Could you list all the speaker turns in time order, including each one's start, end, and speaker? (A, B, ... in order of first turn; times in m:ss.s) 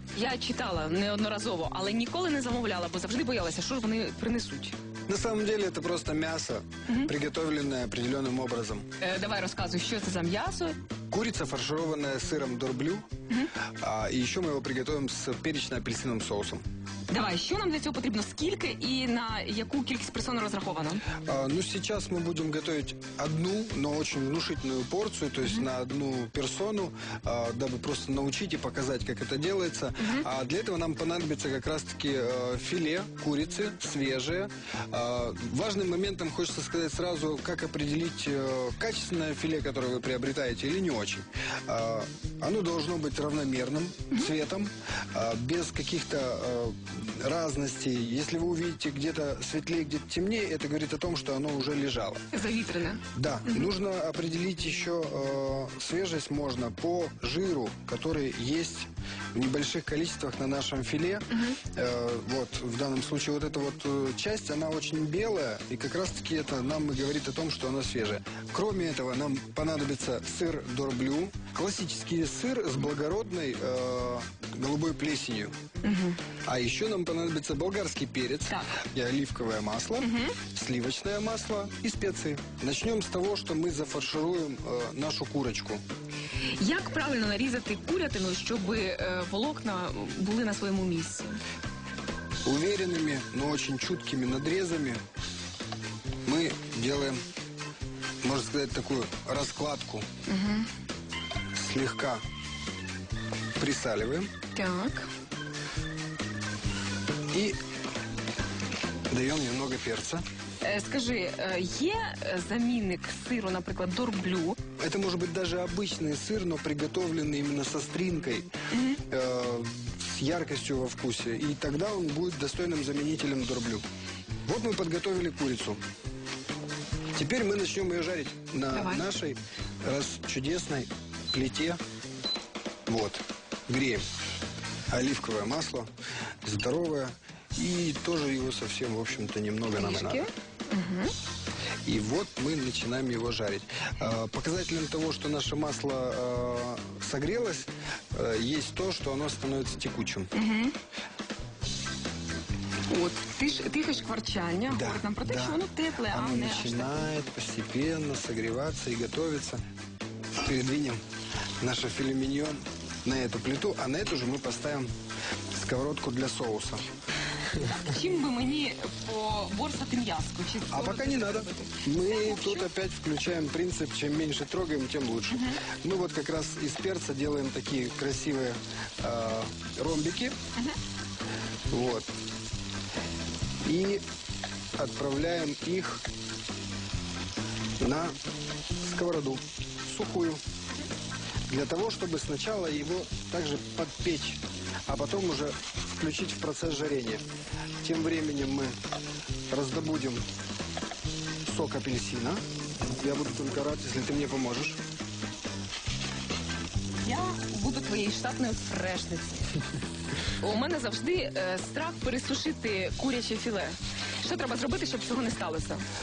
0:00.1-0:04.8 A
0:05.1-0:08.9 B
0:09.0-0:10.8 A
0:11.1-0:13.1 B
0:13.8-0:16.6 B
0:17.1-0:21.1 A
0:21.2-0:52.2 B
0:30.0-0:30.2 A
0:52.3-0:53.7 A
0:53.1-1:15.5 B
1:15.8-1:16.2 A
1:16.4-1:25.8 B
1:20.0-1:20.3 A
1:26.4-1:31.4 A
1:32.4-1:35.0 B
1:36.2-1:37.2 B
1:38.2-1:40.0 B
1:40.3-1:40.7 A
1:41.5-1:42.2 B
1:43.6-1:44.3 B
1:44.5-1:45.1 A
1:49.1-1:50.2 B
1:50.6-1:54.6 A
1:54.8-1:58.5 B
1:58.7-1:59.0 A
1:59.0-2:03.8 B
2:04.4-2:05.8 B
2:07.1-2:11.8 B
2:08.7-2:09.0 A
2:12.9-2:14.0 B
2:14.9-2:15.9 B
2:16.4-2:20.2 B
2:19.8-2:21.1 A
2:21.8-2:30.3 B
2:30.3-2:30.8 A
2:32.9-2:36.9 A
2:34.7-2:39.6 B
2:40.4-2:41.0 B
2:41.6-2:44.9 B
2:45.5-2:46.8 B
2:47.5-2:47.9 B
2:47.6-2:52.7 A
2:50.7-3:00.4 B
2:55.3-2:55.6 A
3:01.7-3:02.1 B
3:03.6-3:04.0 B
3:04.8-3:06.0 B
3:07.8-3:08.1 B
3:08.8-3:10.4 B
3:11.5-3:17.2 B
3:17.8-3:18.7 B
3:19.5-3:20.2 B
3:21.4-3:22.4 B
3:23.0-3:24.8 B
3:27.0-3:29.6 A
3:30.3-3:35.8 A